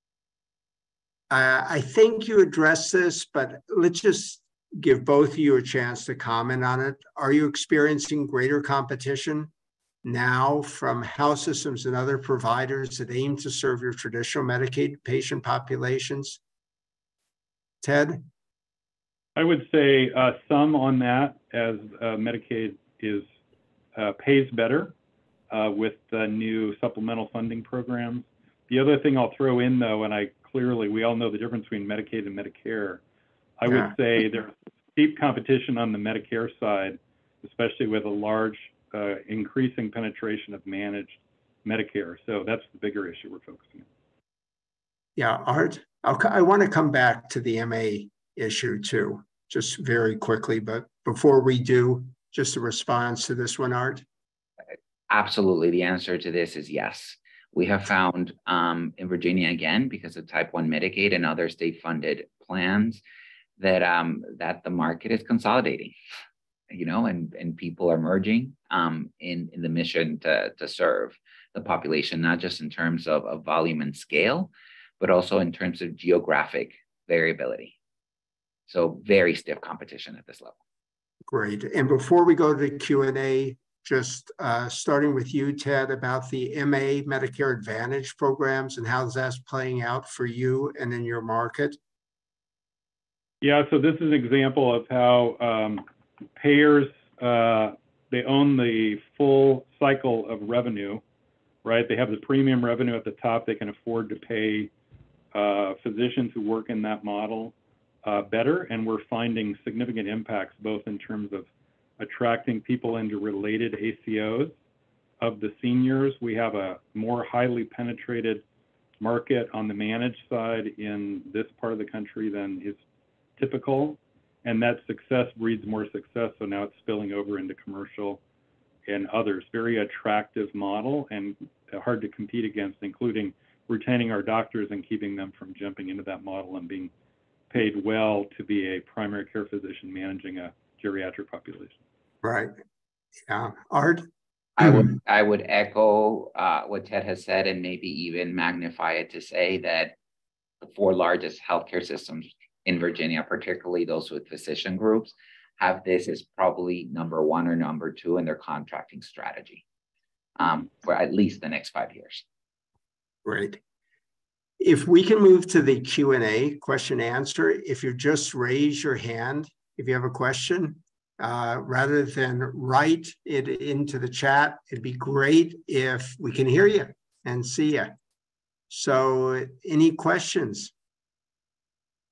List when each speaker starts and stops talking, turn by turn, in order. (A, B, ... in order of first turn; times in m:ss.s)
0:01.3-0:09.5 A
0:10.0-0:16.4 A
0:17.8-0:18.3 A
0:19.4-0:23.2 B
0:23.9-0:24.9 B
0:25.5-0:33.0 B
0:33.6-0:43.9 B
0:33.7-0:33.9 A
0:45.2-0:54.0 A
0:55.1-1:03.0 C
1:03.6-1:05.9 C
1:06.7-1:17.8 C
1:18.7-1:20.6 C
1:21.3-1:31.8 A
1:33.4-1:35.8 B
1:36.4-1:41.0 B
1:41.6-1:44.7 B
1:45.3-1:51.5 B
1:52.0-1:54.5 B
1:55.2-1:58.4 B
1:59.0-2:02.8 B
2:03.4-2:08.2 B
2:08.8-2:16.9 B
2:17.5-2:21.8 B
2:22.2-2:22.5 A
2:23.3-2:24.0 A
2:24.6-2:29.9 C
2:30.6-2:39.6 C
2:40.4-2:42.2 C
2:43.2-2:43.6 A
2:44.6-2:58.0 A
2:58.7-3:00.7 A